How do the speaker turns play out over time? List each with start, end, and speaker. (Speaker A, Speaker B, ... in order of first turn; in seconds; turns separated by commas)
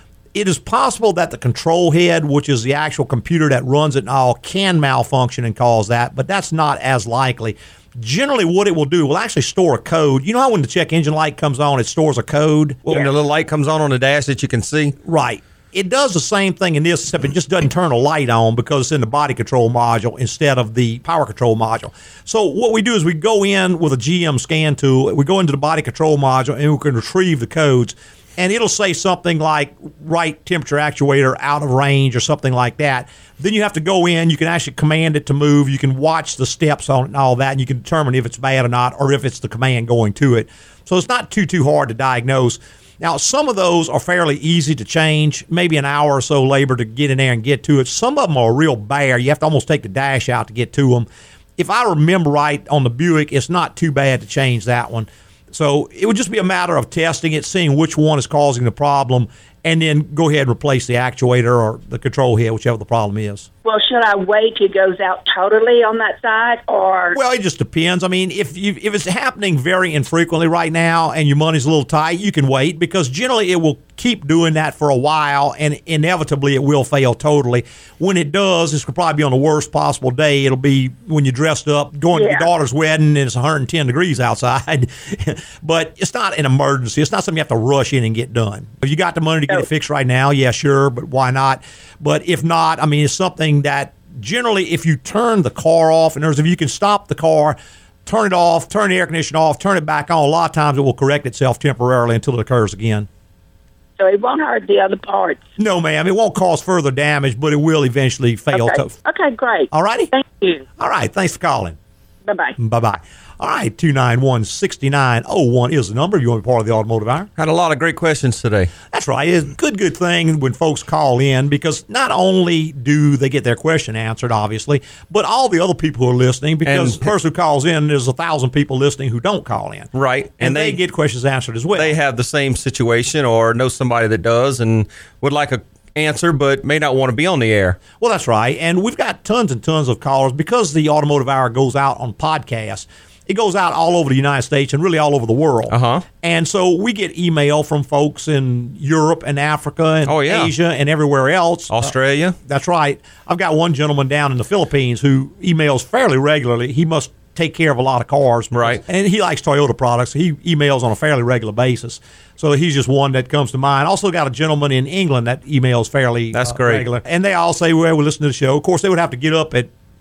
Speaker A: 0.3-13.1, Speaker B: 12.9-14.9, Speaker A: 15.0-63.5, Speaker C: 63.6-67.2, Speaker A: 67.1-103.1, Speaker C: 82.1-82.5, Speaker C: 104.0-105.5, Speaker A: 105.6-108.9, Speaker C: 108.5-110.7, Speaker A: 109.7-110.1, Speaker A: 110.8-111.8, Speaker C: 112.2-112.6, Speaker A: 112.6-117.3, Speaker B: 117.4-118.7, Speaker A: 118.9-132.0, Speaker B: 126.7-127.1, Speaker B: 129.9-130.8, Speaker B: 131.8-137.8, Speaker A: 138.0-151.9, Speaker B: 145.7-146.1, Speaker B: 150.1-150.5, Speaker B: 151.7-152.3, Speaker A: 152.4-169.7, Speaker B: 158.5-158.8, Speaker B: 166.3-166.9